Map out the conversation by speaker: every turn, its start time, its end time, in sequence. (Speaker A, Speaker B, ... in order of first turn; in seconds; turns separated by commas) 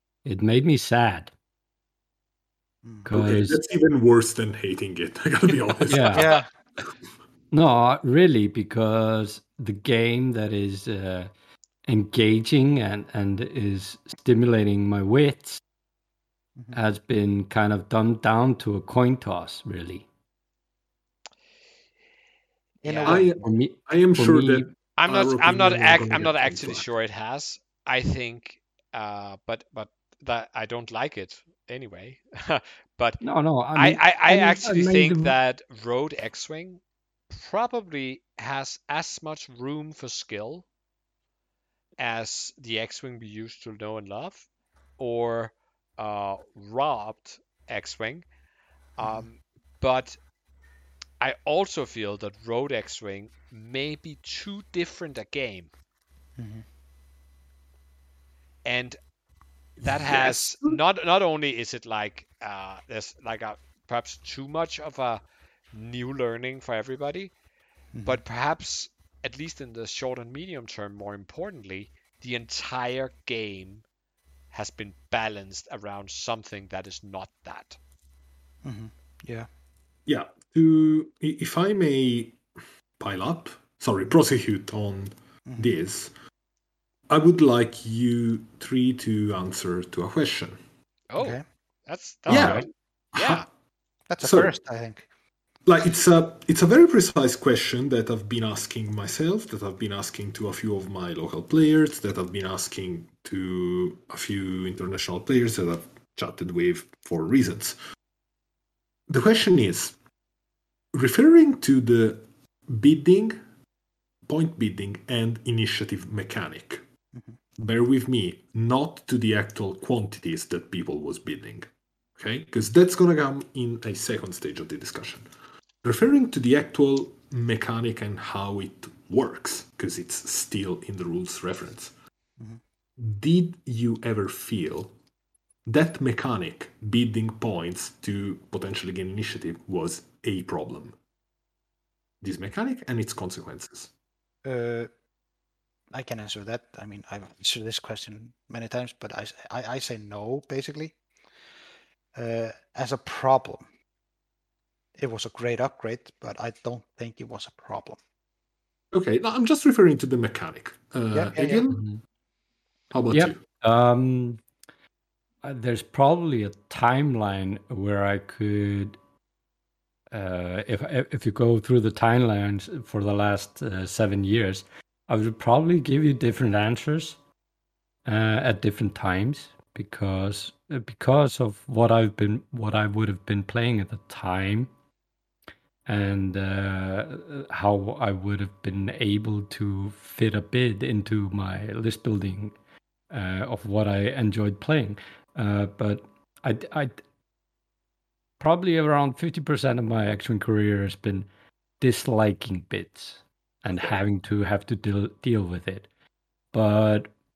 Speaker A: 0.2-1.3, Speaker A: 3.0-3.6, Speaker B: 3.1-6.4, Speaker A: 5.9-6.3, Speaker C: 6.1-6.5, Speaker A: 7.5-11.3, Speaker A: 11.9-15.6, Speaker A: 16.7-20.1, Speaker C: 22.8-23.3, Speaker D: 22.8-23.2, Speaker B: 23.1-26.9, Speaker A: 23.4-24.7, Speaker D: 25.0-33.2, Speaker A: 33.2-35.3, Speaker D: 33.7-40.6, Speaker D: 42.0-44.5, Speaker D: 45.0-48.2, Speaker D: 49.0-50.2, Speaker C: 49.0-49.3, Speaker D: 51.2-55.7, Speaker C: 56.4-56.6, Speaker D: 58.6-59.0, Speaker B: 59.8-60.8, Speaker D: 59.8-65.2, Speaker D: 65.7-67.3, Speaker C: 67.9-68.2, Speaker D: 68.0-73.8, Speaker D: 74.5-77.8, Speaker C: 78.6-79.5, Speaker B: 80.1-82.4, Speaker B: 83.0-86.1, Speaker C: 85.5-85.7, Speaker B: 87.1-90.6, Speaker D: 91.1-93.4, Speaker C: 91.2-91.4, Speaker B: 92.3-93.5, Speaker A: 92.3-92.6, Speaker C: 94.1-95.1, Speaker B: 94.2-94.5, Speaker B: 95.7-107.8, Speaker B: 109.1-109.9, Speaker B: 110.9-113.4, Speaker B: 114.3-116.8, Speaker B: 117.6-121.7, Speaker B: 122.2-125.3, Speaker B: 125.8-131.9, Speaker B: 133.0-134.9, Speaker B: 135.7-140.9, Speaker B: 142.2-143.9, Speaker C: 144.4-144.9, Speaker C: 145.9-150.9, Speaker C: 152.1-153.6, Speaker C: 155.0-158.0, Speaker B: 158.9-161.8, Speaker C: 161.1-161.6, Speaker A: 161.7-162.0, Speaker B: 162.9-163.4, Speaker A: 163.1-164.4, Speaker A: 165.4-169.0, Speaker A: 170.1-177.2, Speaker A: 178.0-184.7, Speaker A: 185.9-192.5, Speaker A: 193.1-197.0, Speaker A: 198.4-201.3, Speaker A: 201.8-205.9, Speaker A: 206.5-207.1